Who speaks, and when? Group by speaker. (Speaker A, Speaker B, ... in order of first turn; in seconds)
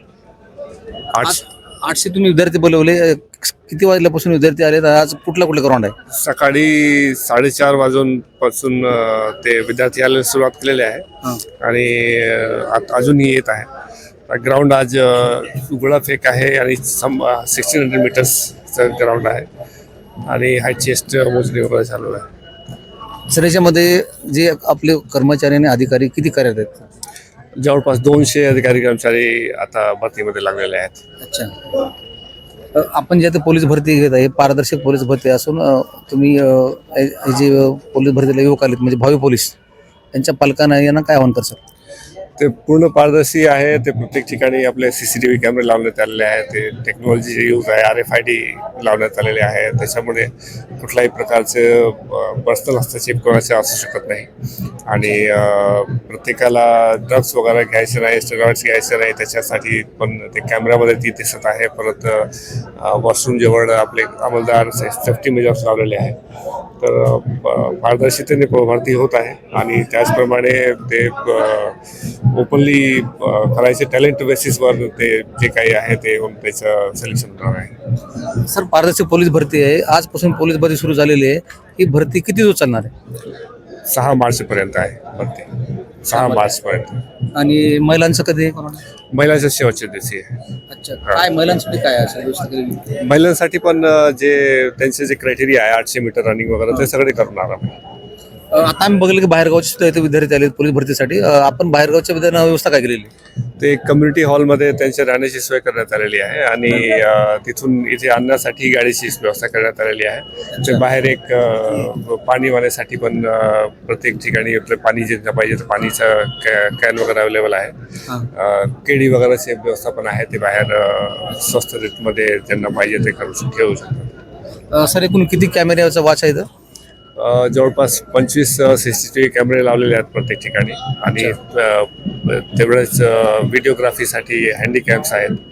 Speaker A: 1.1-1.4, 6.1-13.7, 14.3-19.5, 20.2-22.2, 27.6-31.0, 42.4-54.3, 54.9-66.2, 66.8-77.7, 83.9-87.0, 89.1-90.3, 92.8-97.8, 103.6-117.7, 118.2-124.1, 127.2-135.4
Speaker B: 1.2-5.9, 23.3-26.9, 31.2-31.6, 32.7-39.5, 40.1-41.6, 78.3-82.9, 86.1-86.4, 87.3-88.8, 90.7-92.9, 98.5-103.1, 110.5-110.8, 124.7-126.5